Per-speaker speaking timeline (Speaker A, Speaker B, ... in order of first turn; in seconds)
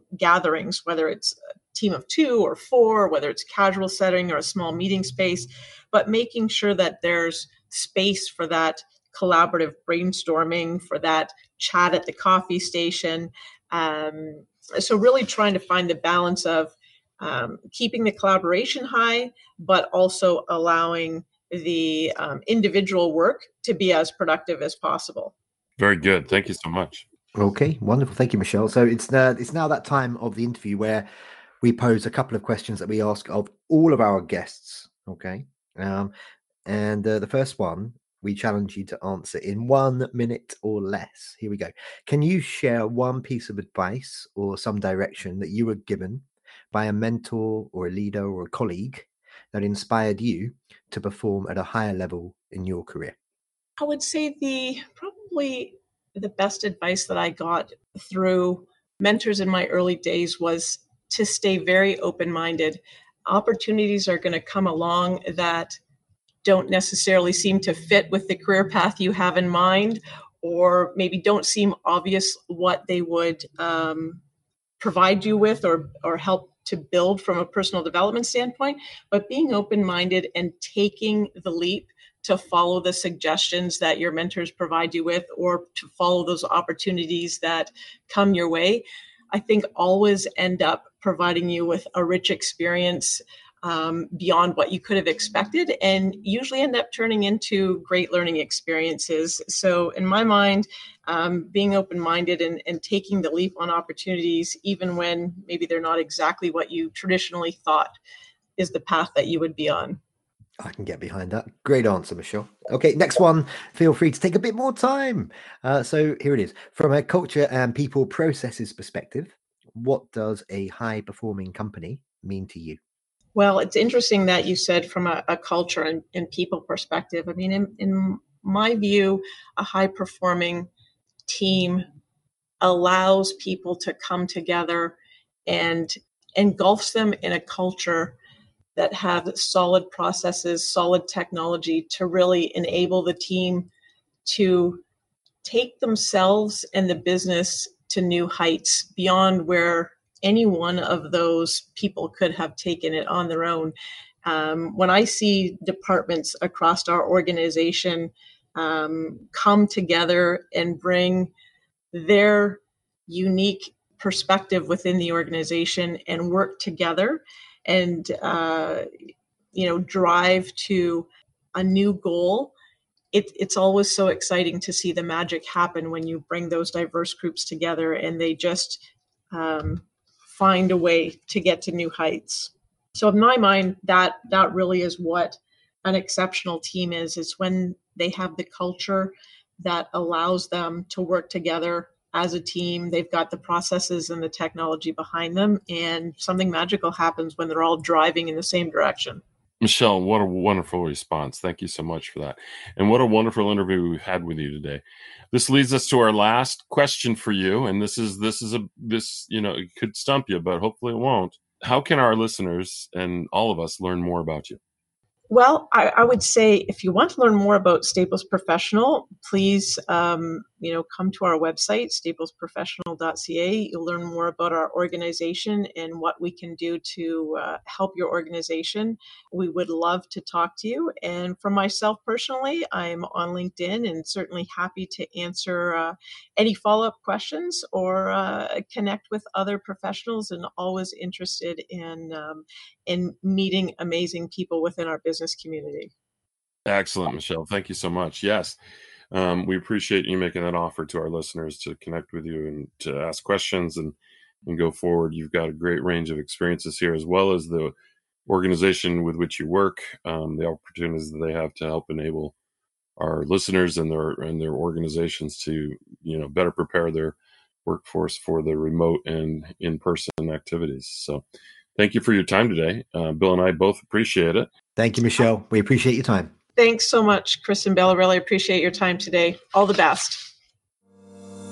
Speaker A: 0.2-25.3, 53.8-65.8, 66.4-74.2, 74.8-108.0, 108.6-110.0, 123.3-130.7, 131.3-131.8, 132.6-134.9, 135.5-138.2, 138.8-143.7, 144.2-144.8, 145.4-153.7, 154.2-161.3, 161.9-168.9, 169.5-172.5, 173.1-199.2, 215.3-245.9, 276.6-280.3
Speaker B: 25.8-27.1, 199.6-214.6, 246.7-248.6, 249.1-257.7, 258.2-262.3, 263.0-271.2, 271.8-274.5
Speaker C: 27.3-31.1, 31.6-36.1, 36.6-53.1, 110.6-122.8, 274.8-276.3